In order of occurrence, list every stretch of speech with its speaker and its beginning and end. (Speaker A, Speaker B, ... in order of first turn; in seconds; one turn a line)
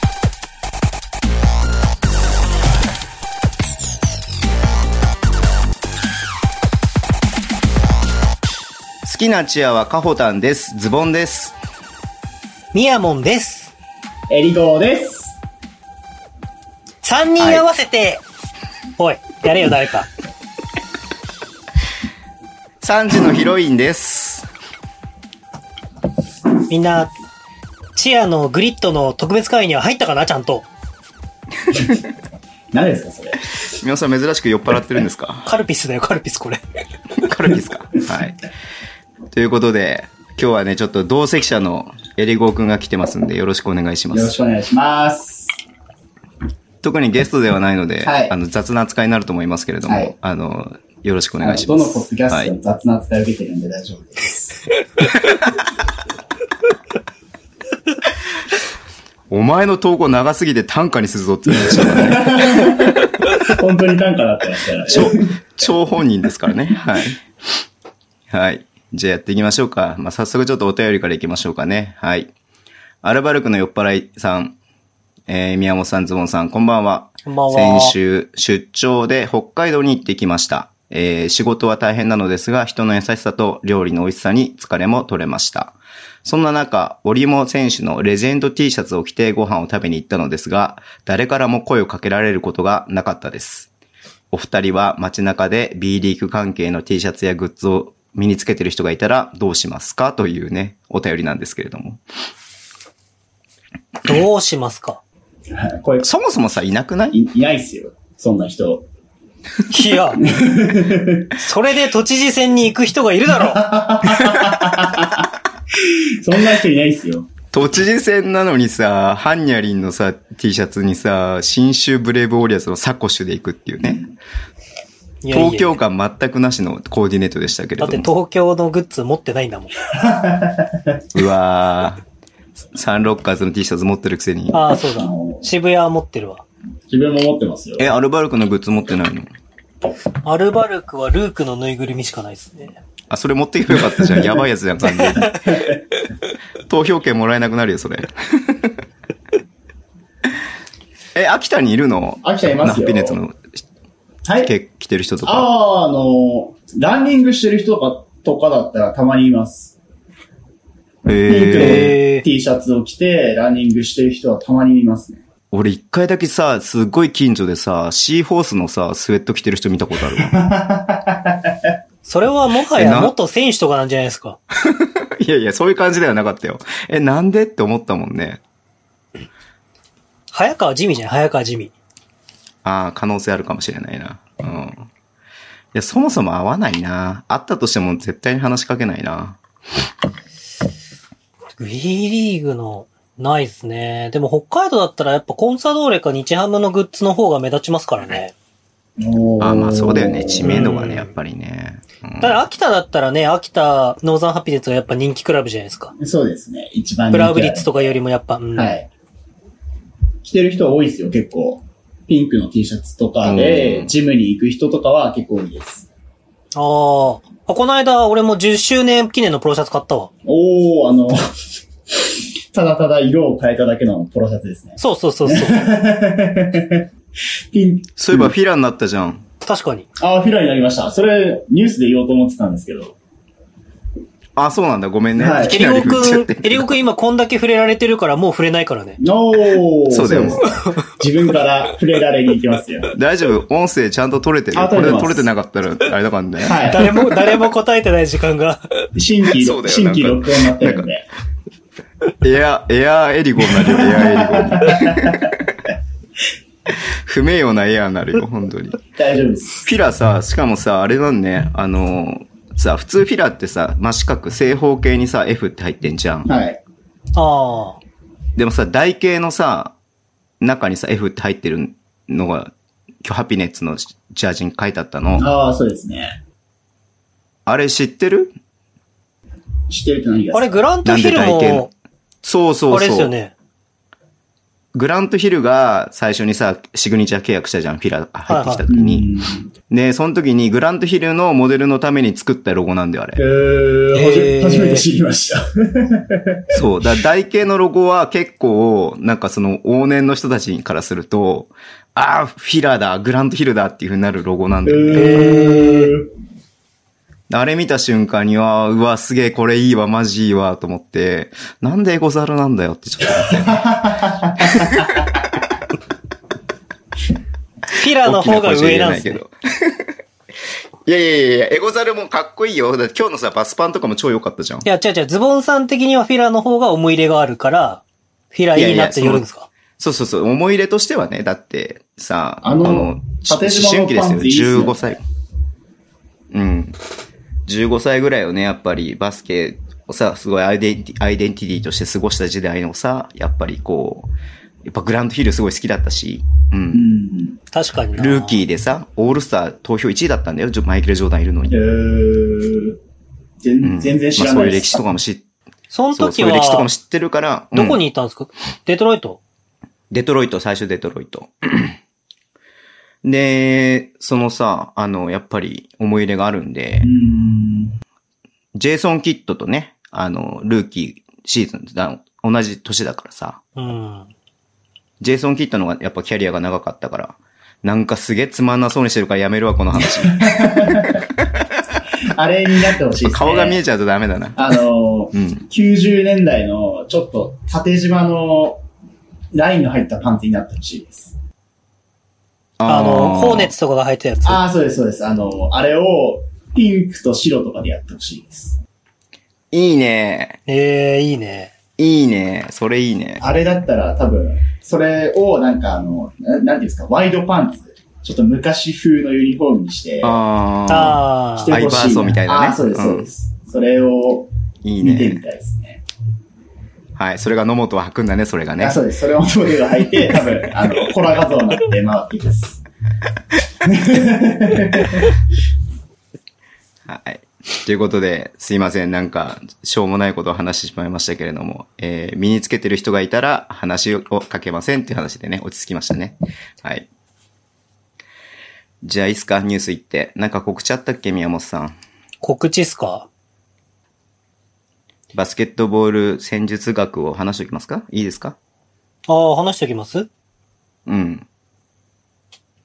Speaker A: 9.0-11.6
Speaker B: 12.7-13.7
Speaker C: 14.3-15.4
Speaker B: 17.0-18.2
Speaker A: 17.4-17.6
Speaker B: 19.0-20.1
Speaker A: 22.8-24.5
Speaker B: 26.7-27.1
Speaker B: 28.0-30.7
Speaker C: 32.7-33.5
Speaker A: 33.6-35.5
Speaker B: 35.5-36.6
Speaker A: 37.1-38.4
Speaker A: 39.3-44.4
Speaker C: 44.1-45.6
Speaker A: 46.8-52.5
Speaker C: 48.0-48.3
Speaker C: 49.9-50.1
Speaker C: 51.4-54.6
Speaker A: 59.3-63.0
Speaker C: 61.5-65.3
Speaker A: 64.9-67.6
Speaker A: 68.3-72.3
Speaker A: 73.0-74.6
Speaker A: 75.3-93.7
Speaker B: 77.3-78.0
Speaker A: 94.3-102.0
Speaker B: 104.0-105.0
Speaker C: 105.5-106.1
Speaker A: 106.0-107.2
Speaker C: 107.1-108.9
Speaker B: 109.7-110.2
Speaker C: 110.2-111.3
Speaker B: 111.3-113.7
Speaker C: 113.4-117.3
Speaker A: 114.2-114.5
Speaker A: 117.5-124.1
Speaker B: 125.2-125.7
Speaker A: 125.3-128.1
Speaker B: 127.8-129.7
Speaker C: 130.0-131.0
Speaker A: 131.1-132.0
Speaker A: 132.7-134.6
Speaker B: 134.5-136.4
Speaker C: 135.0-135.5
Speaker C: 136.9-137.9
Speaker A: 137.8-139.3
Speaker B: 140.2-142.8
Speaker A: 143.1-145.4
Speaker C: 144.0-144.4
Speaker C: 145.2-145.8
Speaker A: 146.7-148.8
Speaker A: 151.2-153.6
Speaker C: 152.2-153.2
Speaker C: 154.3-154.5
Speaker A: 154.4-155.5
Speaker C: 155.2-159.8
Speaker A: 161.1-161.9
Speaker C: 161.3-165.2
Speaker B: 161.6-162.2
Speaker A: 165.5-170.4
Speaker C: 170.2-171.7
Speaker B: 172.1-174.4
Speaker A: 172.7-173.1
Speaker A: 174.6-178.4
Speaker B: 180.3-181.7
Speaker A: 182.6-184.9
Speaker A: 185.7-189.4
Speaker B: 191.6-198.3
Speaker C: 199.0-200.8
Speaker A: 199.4-202.4
Speaker B: 200.5-201.1
Speaker B: 202.2-205.9
Speaker C: 206.0-207.7
Speaker B: 207.1-208.7
Speaker C: 208.6-208.9
Speaker C: 210.2-215.9
Speaker A: 213.2-213.9
Speaker B: 216.6-220.1
Speaker C: 220.2-221.2
Speaker C: 221.9-226.9
Speaker B: 224.8-225.6
Speaker C: 227.5-228.3
Speaker A: 228.0-229.2
Speaker B: 229.4-229.9
Speaker C: 230.0-233.0
Speaker A: 234.4-236.7
Speaker C: 235.2-235.7
Speaker B: 235.4-239.0
Speaker C: 239.0-242.9
Speaker A: 239.9-240.5
Speaker B: 240.4-240.8
Speaker A: 242.9-246.8
Speaker C: 244.5-245.3
Speaker C: 246.4-247.0
Speaker B: 246.7-248.8
Speaker C: 248.9-251.1
Speaker A: 249.4-250.9
Speaker A: 252.2-255.4
Speaker C: 253.7-255.3
Speaker A: 256.7-258.8
Speaker C: 258.9-259.7
Speaker A: 259.6-266.3
Speaker C: 266.3-266.6
Speaker B: 267.1-267.8
Speaker A: 268.4-269.8
Speaker A: 270.4-272.5
Speaker A: 273.0-275.3
Speaker C: 275.2-276.2
Speaker A: 277.5-278.3
Speaker C: 279.7-280.6
Speaker B: 280.3-281.7
Speaker A: 280.9-281.7
Speaker A: 282.2-283.1
Speaker B: 282.7-283.3
Speaker A: 284.7-289.1
Speaker B: 288.3-288.6
Speaker C: 288.7-289.5
Speaker A: 289.7-293.2
Speaker C: 293.2-296.4
Speaker B: 293.9-294.8
Speaker A: 296.5-305.2
Speaker C: 304.7-306.1
Speaker B: 304.9-305.9
Speaker A: 307.3-313.7
Speaker C: 313.2-315.1
Speaker A: 314.5-314.8
Speaker B: 317.7-319.2
Speaker A: 317.8-319.9
Speaker A: 320.9-324.7
Speaker B: 324.6-329.5
Speaker A: 328.5-329.2
Speaker A: 329.8-335.0
Speaker C: 332.4-334.9
Speaker A: 336.3-336.8
Speaker A: 337.5-344.1
Speaker A: 344.7-346.9
Speaker C: 346.7-347.4
Speaker B: 347.5-348.4
Speaker A: 347.9-351.6
Speaker C: 351.5-352.8
Speaker C: 353.4-354.8
Speaker A: 353.6-355.3
Speaker B: 355.7-356.7
Speaker A: 355.9-357.8
Speaker B: 357.5-359.2
Speaker A: 359.9-361.8
Speaker A: 363.0-366.9
Speaker C: 366.8-367.8
Speaker A: 368.5-373.4
Speaker B: 373.6-374.1
Speaker A: 375.0-381.6
Speaker C: 379.9-381.1
Speaker C: 382.0-383.6
Speaker A: 382.9-384.6
Speaker C: 384.4-388.6
Speaker A: 385.1-385.4
Speaker C: 389.3-391.2
Speaker A: 392.6-393.5
Speaker B: 392.7-394.4
Speaker C: 394.2-398.6
Speaker A: 399.5-400.4
Speaker B: 400.5-401.5
Speaker A: 401.8-403.2
Speaker C: 403.2-410.2
Speaker A: 410.0-413.1
Speaker B: 410.7-411.6
Speaker C: 411.4-414.3
Speaker A: 414.6-415.2
Speaker C: 414.8-415.8
Speaker A: 417.0-418.8
Speaker C: 418.6-422.6
Speaker C: 423.6-425.1
Speaker A: 426.9-436.9
Speaker A: 438.8-441.8
Speaker B: 442.2-443.1
Speaker A: 445.1-448.4
Speaker B: 449.1-450.1
Speaker A: 450.9-451.3